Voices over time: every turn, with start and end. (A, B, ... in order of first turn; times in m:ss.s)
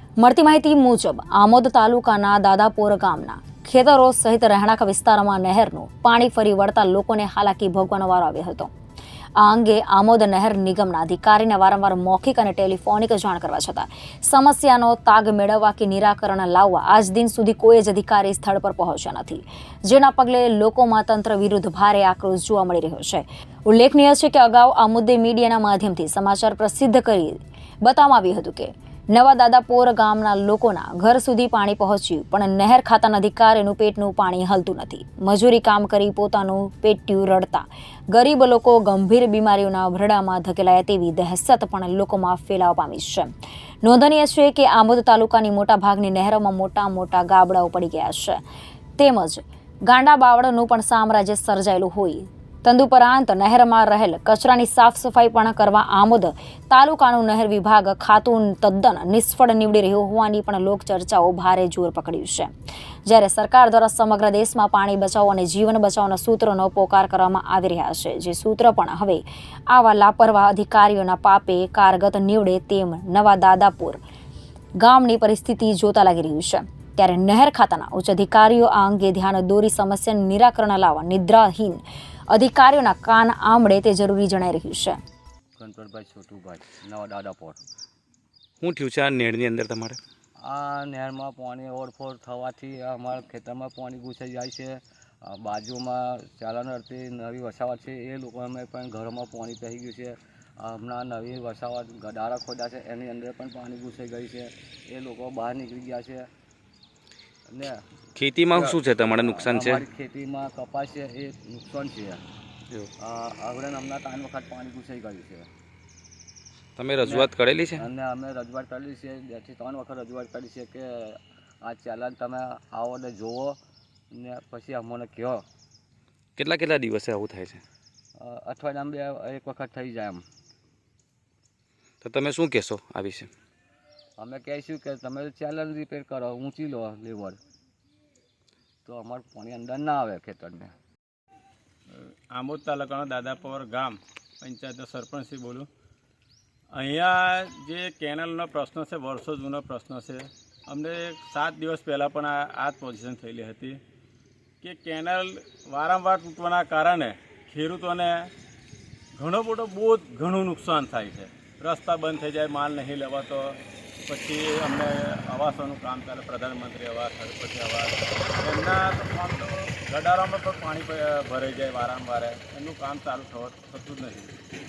0:00.2-0:08.7 A
0:09.4-0:43.3 A
0:43.8-0:48.4 A
0:49.0-1:02.5 A
1:03.1-1:14.0 A
1:14.8-1:25.0 A
1:25.6-1:27.6 B
1:28.6-1:30.0 C
1:30.4-1:46.3 B
1:47.5-1:47.8 B
1:48.2-1:49.8 C
1:48.5-1:52.2 B
1:53.0-1:55.5 B
1:56.8-1:57.8 C
1:57.0-2:03.6 B
2:04.1-2:05.4 B
2:06.4-2:07.6 C
2:08.2-2:10.2 B
2:12.0-2:13.3 C
2:14.2-2:17.4 B
2:18.8-2:20.7 B
2:22.3-2:25.7 D
2:26.7-2:33.8 D
2:34.6-2:38.3 D
2:39.2-2:54.3 D